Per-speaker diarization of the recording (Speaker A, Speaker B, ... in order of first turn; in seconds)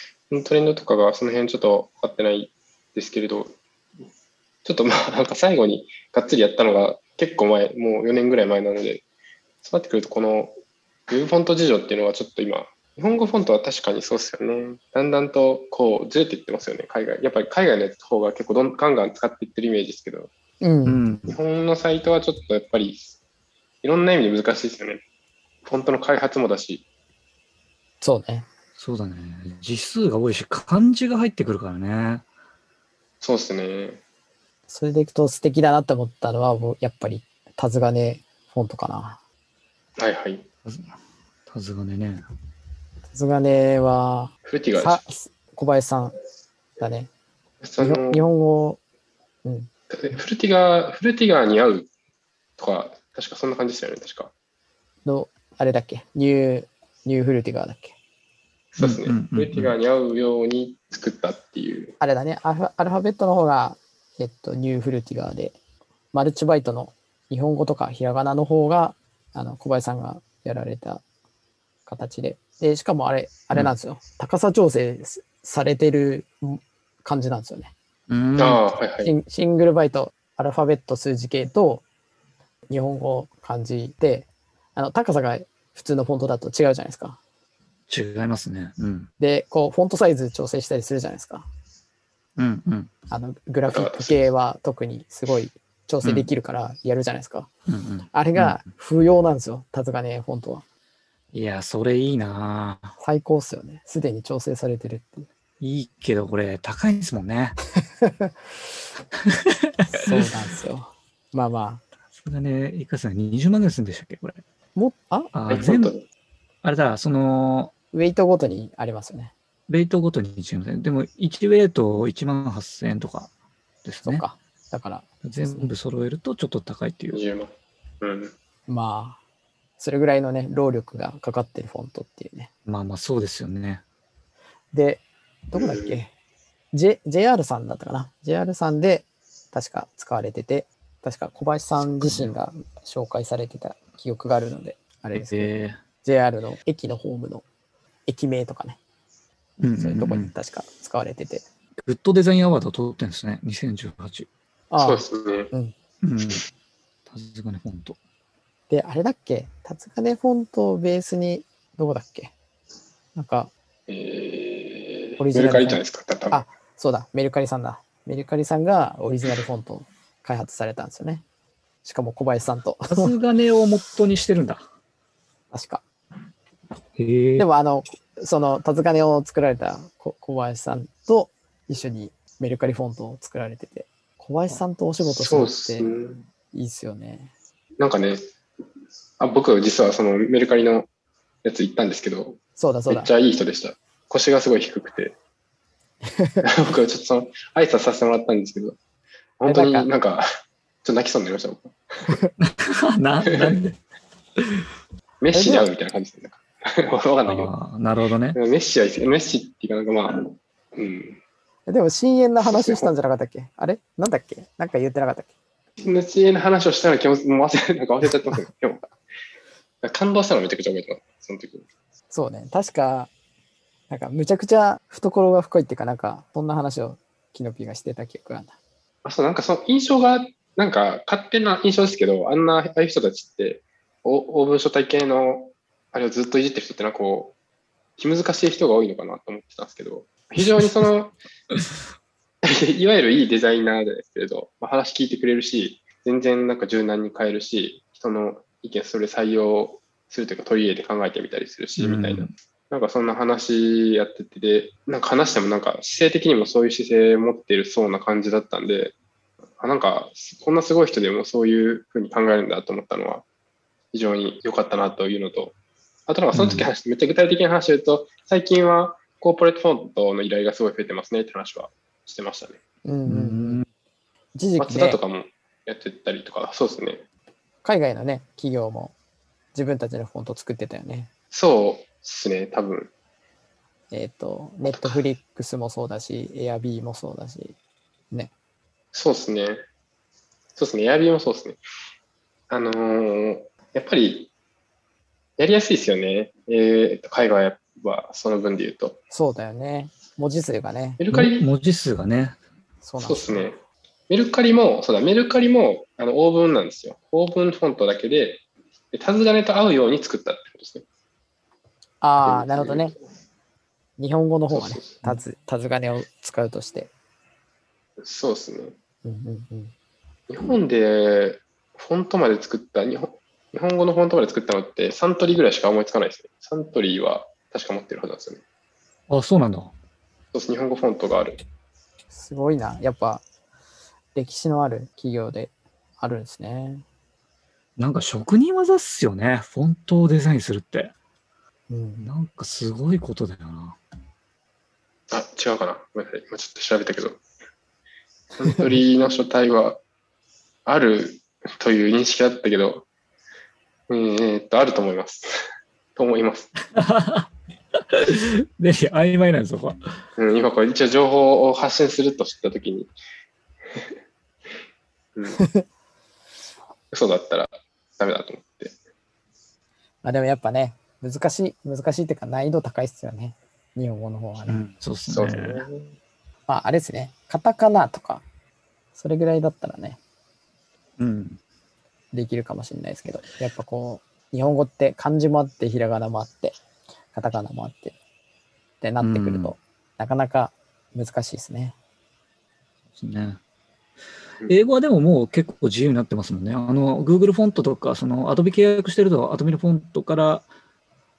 Speaker A: 0.3-3.6, 4.6-9.0, 9.6-10.6, 11.1-20.3, 21.3-23.2, 23.8-25.0, 25.6-26.9, 33.2-34.0, 40.0-40.4, 44.5-45.1, 47.6-48.3, 49.9-51.9, 52.6-54.3, 58.7-62.0, 78.4-79.1, 93.7-94.3, 115.5-116.0, 127.1-128.3, 135.5-136.0, 154.8-155.5, 163.9-166.4, 185.0-186.2, 187.8-188.2, 189.2-190.9, 191.4-192.4, 192.9-195.2, 196.4-198.8, 199.4-200.2, 200.8-202.2, 203.2-203.6, 205.2-207.5, 208.3-211.2, 212.4-212.9, 215.8-218.9, 219.8-221.7, 229.0-237.3, 238.0-241.1, 242.4-258.9, 259.6-263.2, 263.9-265.6, 266.1-272.6, 274.6-277.0, 281.3-282.9, 284.7-285.0, 288.9-289.6, 290.6-291.6, 292.5-294.3, 295.4-299.0, 301.0-301.5, 303.0-303.6, 304.1-310.9, 312.2-313.0, 314.5-315.2, 318.0-318.7, 320.3-328.4, 330.3-331.4, 345.1-347.2, 348.4-349.8, 350.7-352.9, 353.9-355.3, 356.0-356.5, 360.2-362.9, 366.9-368.8, 375.1-375.9
Speaker B: 20.6-21.1, 28.0-28.5, 34.7-39.2, 43.1-46.2, 46.8-47.1, 47.8-48.8, 49.4-49.7, 55.0-58.0, 62.0-65.6, 66.1-71.0, 71.9-77.7, 79.0-81.8, 82.7-87.2, 89.2-91.5, 93.1-97.5, 98.1-100.6, 103.0-105.3, 108.0-108.3, 110.0-111.8, 114.8-115.3, 117.9-119.3, 124.0-125.7, 128.7-129.2, 129.8-132.5, 134.7-136.1, 136.7-145.5, 146.0-147.4, 148.1-148.8, 149.7-151.4, 154.7-155.7, 158.7-162.3, 163.1-163.5, 165.2-171.2, 171.8-173.2, 175.5-175.8, 177.4-185.9, 186.5-187.3, 192.6-193.1, 196.2-196.4, 199.5-199.9, 205.3-205.7, 211.7-215.3, 222.1-223.1, 223.9-228.6, 272.9-273.6, 274.4-275.0, 277.6-278.9, 279.5-281.1, 283.9-287.6, 299.1-301.0, 302.8-303.5, 312.0-313.0, 314.0-316.9, 319.0-319.7, 332.1-333.2, 334.1-336.8, 341.7-342.1, 365.4-365.6, 370.0-374.6, 376.5-378.2, 378.9-380.0, 382.1-386.6, 387.1-388.0, 388.8-391.8
Speaker C: 20.9-21.4, 28.8-32.2, 40.6-40.9, 41.5-42.2, 58.8-59.7, 78.1-78.6, 87.9-89.1, 92.4-92.9, 96.0-96.3, 97.7-98.6, 101.3-103.0, 105.6-107.6, 112.2-114.4, 115.3-115.9, 116.6-117.7, 119.7-123.3, 123.8-124.2, 125.2-127.2, 132.7-133.8, 142.0-142.3, 145.2-145.8, 149.6-150.3, 151.8-154.3, 156.0-156.4, 157.1-158.0, 172.9-174.6, 177.0-177.5, 202.4-203.8, 207.3-208.4, 251.8-252.3, 266.3-266.7, 273.1-273.6, 301.1-302.4, 329.1-329.7, 337.8-340.9, 342.0-343.8, 356.8-357.3, 358.0-359.8, 374.5-375.6, 381.0-381.4, 389.0-389.5, 392.9-393.4, 394.5-400.5